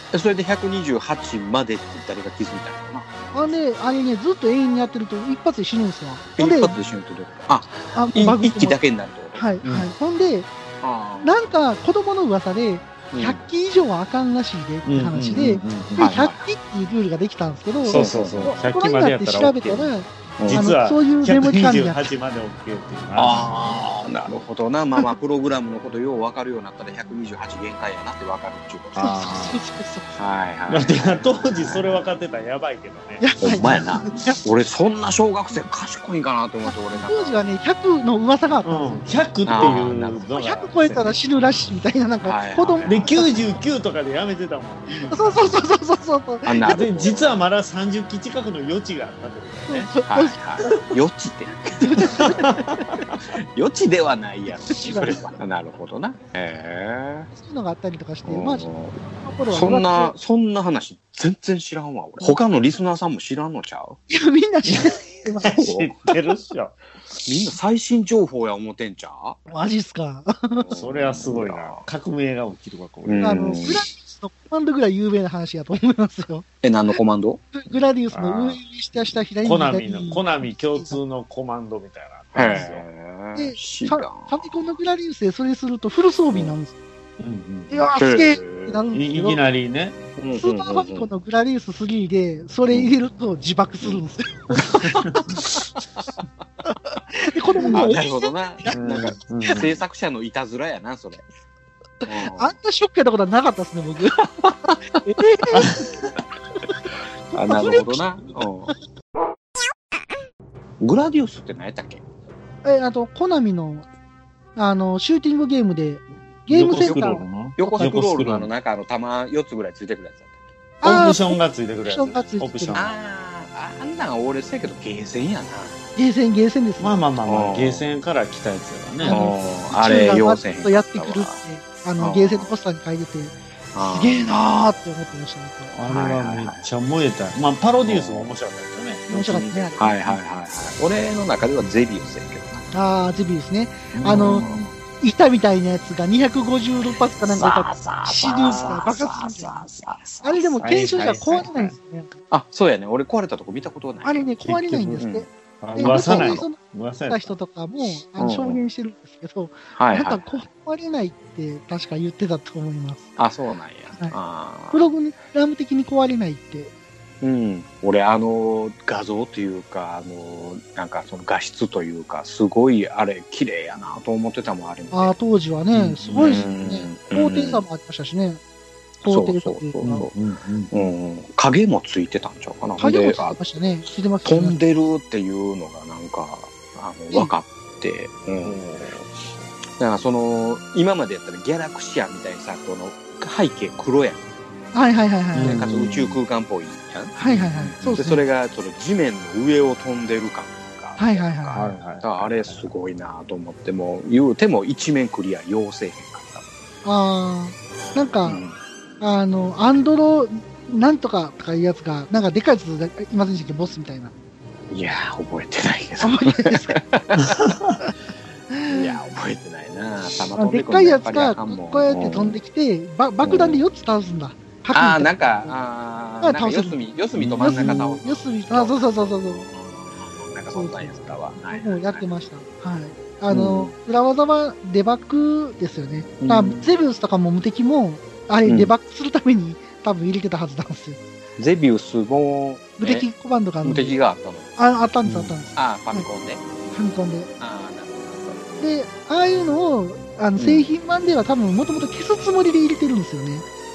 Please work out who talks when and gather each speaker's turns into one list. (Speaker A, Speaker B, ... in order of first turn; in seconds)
Speaker A: 0.1-3.5, 6.4-9.4, 10.8-11.4, 13.1-13.4, 16.0-16.4, 17.9-18.6, 20.4-20.7, 23.2-29.0, 30.2-32.1, 33.4-37.5, 39.5-40.3, 42.2-43.1, 46.5-47.4, 50.1-52.6, 53.5-57.3, 58.3-64.0, 65.6-66.0, 67.2-69.4, 70.6-71.8, 73.0-73.8, 76.6-77.4, 82.3-84.5, 88.0-88.8, 90.2-91.1, 94.8-95.4, 97.7-101.2, 102.1-102.6, 107.3-108.7, 110.8-112.0, 116.8-117.0, 117.6-120.4, 122.7-125.8, 127.3-127.8, 129.1-131.4, 132.0-132.5, 133.8-134.3, 135.9-136.7, 137.8-138.3, 139.8-142.7, 144.0-144.7, 147.2-150.6, 152.3-154.2, 155.0-156.5, 158.2-158.6, 159.8-160.4, 163.2-164.8, 167.2-175.2, 176.2-177.6, 179.1-180.1, 180.7-183.4, 184.2-188.7, 189.8-194.2, 195.4-197.1, 197.8-206.4, 208.2-208.6, 214.7-217.4, 218.7-222.4, 223.2-223.6, 224.7-232.0, 233.3-233.7, 236.2-236.7, 238.4-238.7, 241.4-243.1, 243.6-244.5, 245.6-246.5, 247.4-248.4, 250.4-250.7
Speaker B: 3.3-6.8, 7.9-8.8, 9.3-10.5, 11.2-22.1, 29.0-30.2, 33.2-34.4, 36.6-39.0, 40.3-43.3, 45.1-46.6, 49.7-50.4, 51.8-52.6, 54.7-55.2, 57.3-58.7, 59.2-60.1, 64.1-65.6, 69.5-70.7, 73.2-76.5, 77.5-81.0, 83.3-86.7, 87.7-89.4, 90.3-94.9, 97.1-99.1, 102.0-105.8, 107.3-108.1, 112.6-113.9, 114.6-117.9, 120.8-122.8, 126.0-127.0, 129.0-135.7, 139.1-139.8, 142.7-144.5, 145.0-149.6, 150.2-152.2, 154.0-163.1, 164.7-166.7, 174.9-178.4, 179.0-180.1, 182.8-184.6, 194.7-195.7, 197.2-198.2, 201.0-201.7, 206.8-208.4, 209.0-214.1, 216.0-216.8, 218.5-218.9, 220.4-225.5, 226.2-226.8, 227.4-229.4, 230.5-241.0, 242.8-244.0, 244.6-246.1, 246.7-247.3, 248.6-253.4
Speaker C: 9.6-9.9, 14.9-16.1, 17.9-19.9, 20.5-23.7, 29.0-29.6, 30.7-33.9, 38.6-41.1, 42.9-45.5, 46.6-49.9, 52.2-53.2, 64.7-66.8, 70.8-73.7, 78.1-78.6, 79.4-82.8, 87.2-87.9, 88.9-90.0, 94.8-95.4, 97.6-97.9, 98.7-99.7, 105.5-106.1, 116.5-118.5, 120.8-123.0, 126.8-129.3, 135.7-140.2, 144.0-144.7, 150.6-151.8, 154.4-155.1, 155.6-157.3, 175.7-176.5, 179.8-180.7, 188.4-189.1, 195.4-196.2, 197.2-198.1, 201.5-202.7, 217.4-217.8, 227.2-227.9, 245.1-245.3